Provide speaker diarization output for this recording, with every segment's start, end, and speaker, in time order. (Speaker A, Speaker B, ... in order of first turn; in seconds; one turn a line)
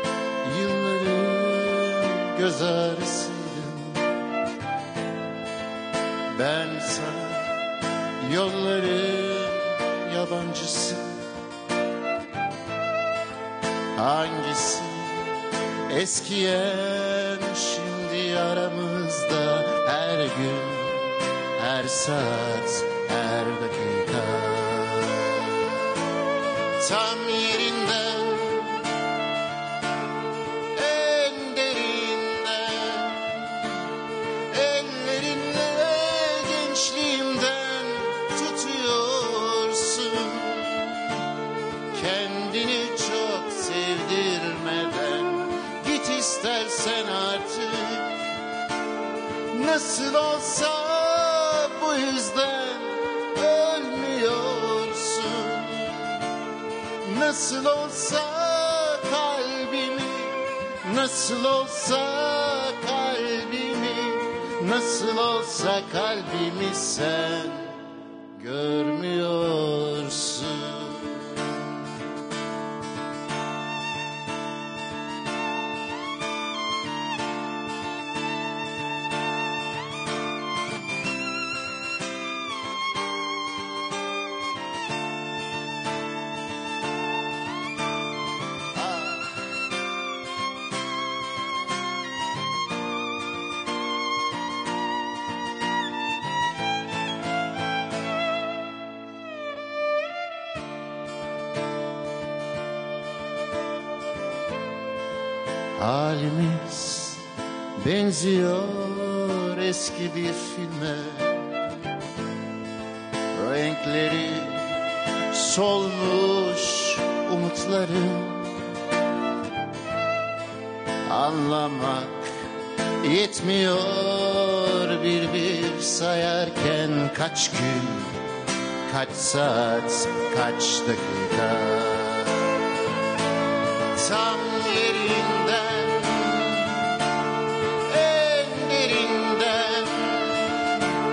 Speaker A: 0.4-4.1
Speaker A: 6.3-7.5
Speaker A: 8.2-11.2
Speaker A: 13.9-15.3
Speaker A: 15.9-25.8
Speaker A: 26.8-28.9
Speaker A: 30.7-33.7
Speaker A: 34.5-41.1
Speaker A: 41.9-48.1
Speaker A: 49.5-56.2
Speaker A: 57.0-67.7
Speaker A: 68.4-71.7
Speaker A: 88.8-89.3
Speaker A: 105.7-107.2
Speaker A: 107.8-111.5
Speaker A: 113.3-118.6
Speaker A: 121.0-122.3
Speaker A: 123.0-128.3
Speaker A: 128.8-132.6
Speaker A: 133.9-136.9
Speaker A: 137.9-140.7